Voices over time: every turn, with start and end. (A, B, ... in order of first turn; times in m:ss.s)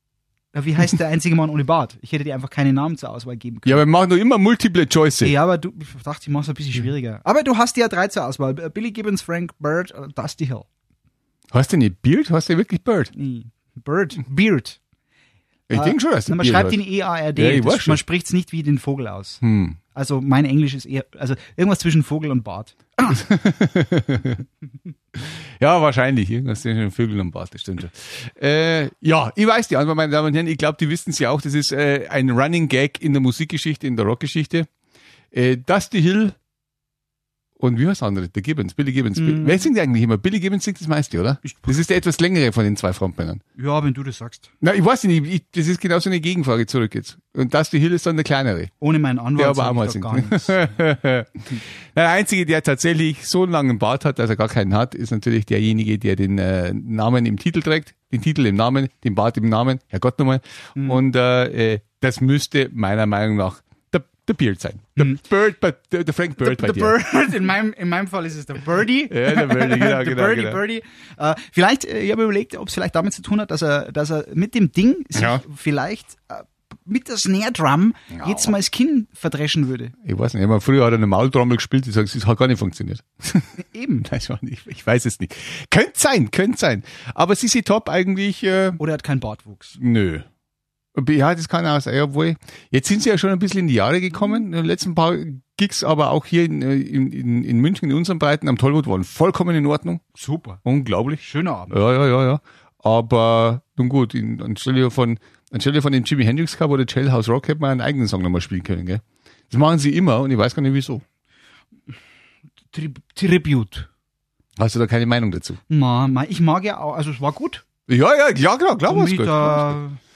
0:00.5-0:03.8 A
0:03.6-0:05.4 B
0:05.2-0:10.7 A
0:11.5-0:13.1 B
0:13.1-0:14.8 A
0:15.7-0:16.8 B
0:15.7-0:19.4 A
0:17.4-0:18.0 B
0:19.4-0:19.8 B
0:19.9-0:23.2 A
0:23.1-0:24.4 B
0:25.2-0:34.7 B
0:35.3-0:36.4 B
0:37.6-0:43.4 B
0:39.2-0:39.6 A
0:41.4-0:41.7 A
0:43.6-0:44.5 A
0:44.6-0:48.7 B
0:48.8-0:50.7 A
0:49.4-1:07.0 B
1:00.8-1:01.0 A
1:06.4-1:19.9 A
1:09.1-1:10.6 B
1:15.2-1:15.4 B
1:18.1-1:18.5 B
1:20.0-1:23.5 B
1:23.6-1:24.1 A
1:24.0-1:28.8 B
1:28.8-1:29.8 A
1:29.8-1:30.3 B
1:31.0-1:40.0 B
1:40.2-1:40.6 A
1:40.6-1:51.0 B
1:41.2-1:41.8 A
1:52.7-1:53.9 A
1:54.6-1:55.6 B
1:55.7-1:57.6 A
1:57.9-1:59.8 B
1:58.9-2:00.0 A